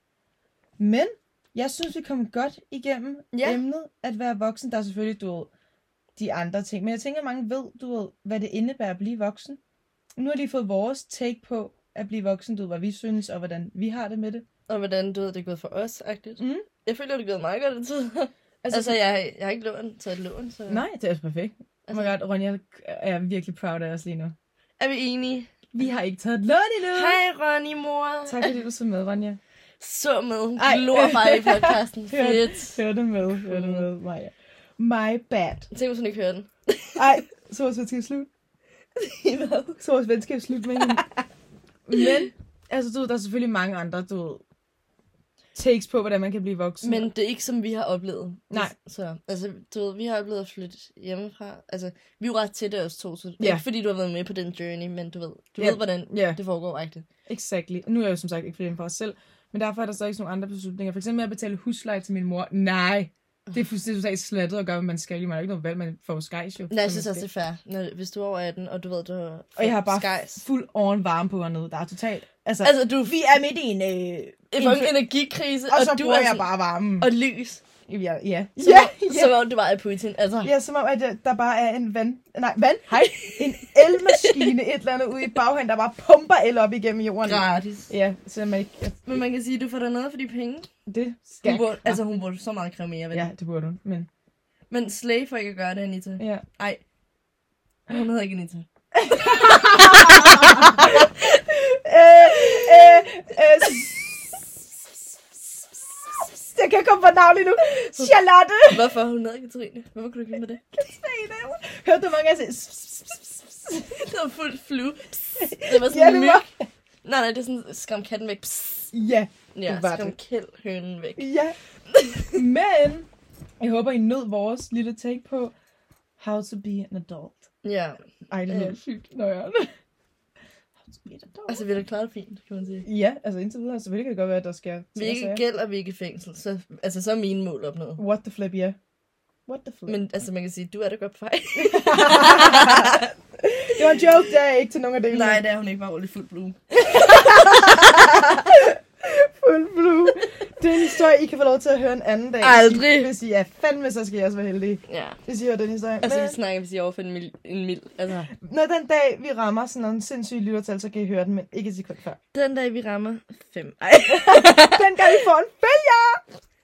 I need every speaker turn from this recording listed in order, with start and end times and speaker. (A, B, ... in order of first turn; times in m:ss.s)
0:00.8-0:05.5 A
0:03.3-0:03.6 B
0:06.2-0:09.6 A
0:10.2-0:14.5 A
0:14.7-0:20.8 B
0:16.4-0:16.6 A
0:18.6-0:19.0 A
0:20.7-0:24.4 A
0:24.8-0:25.5 B
0:25.7-0:27.2 A
0:26.9-0:28.5 B
0:28.3-0:29.4 A
0:29.8-0:32.8 B
0:30.6-0:35.7 A
0:33.4-0:33.9 B
0:35.7-0:37.2 B
0:37.0-0:38.3 A
0:39.0-0:39.8 B
0:39.8-0:41.0 A
0:40.8-0:41.2 B
0:41.9-0:44.4 A
0:45.6-0:47.1 A
0:46.8-0:57.0 B
0:55.6-0:56.4 A
0:57.3-1:07.3 A
1:06.7-1:10.4 B
1:09.6-1:15.0 A
1:12.6-1:13.2 B
1:14.5-1:17.6 B
1:15.7-1:17.1 A
1:17.9-1:19.4 A
1:18.6-1:20.5 B
1:20.4-1:29.0 A
1:23.0-1:24.5 B
1:27.2-1:27.9 B
1:29.0-1:30.7 B
1:30.9-1:32.0 A
1:31.4-1:33.3 B
1:33.1-1:34.1 A
1:34.7-1:36.8 B
1:36.2-1:36.4 A
1:37.9-1:41.4 B
1:38.9-1:44.4 A
1:42.2-1:43.0 B
1:43.6-1:44.0 B
1:45.9-1:49.0 A
1:47.8-1:48.1 B
1:48.7-1:50.7 B
1:50.7-1:53.9 A
1:53.8-1:56.5 B
1:55.4-1:56.6 A
1:57.0-1:58.9 B
1:58.9-2:00.2 A
1:59.5-2:01.3 B
2:01.2-2:01.6 A
2:01.9-2:02.4 B
2:02.3-2:03.1 A
2:03.6-2:05.5 A
2:06.2-2:07.5 A
2:07.6-2:08.8 B
2:08.3-2:09.7 A
2:10.8-2:11.7 A
2:11.5-2:12.9 B
2:12.8-2:15.4 A
2:15.0-2:18.0 B
2:18.0-2:18.8 A
2:19.5-2:20.0 A
2:19.9-2:23.1 B
2:21.6-2:25.4 A
2:23.7-2:24.0 B
2:25.1-2:28.4 B
2:26.9-2:36.4 A
2:32.4-2:33.1 B
2:34.9-2:35.2 B
2:36.0-2:38.3 B
2:38.3-2:42.2 A
2:42.3-2:45.2 B
2:44.1-2:46.2 A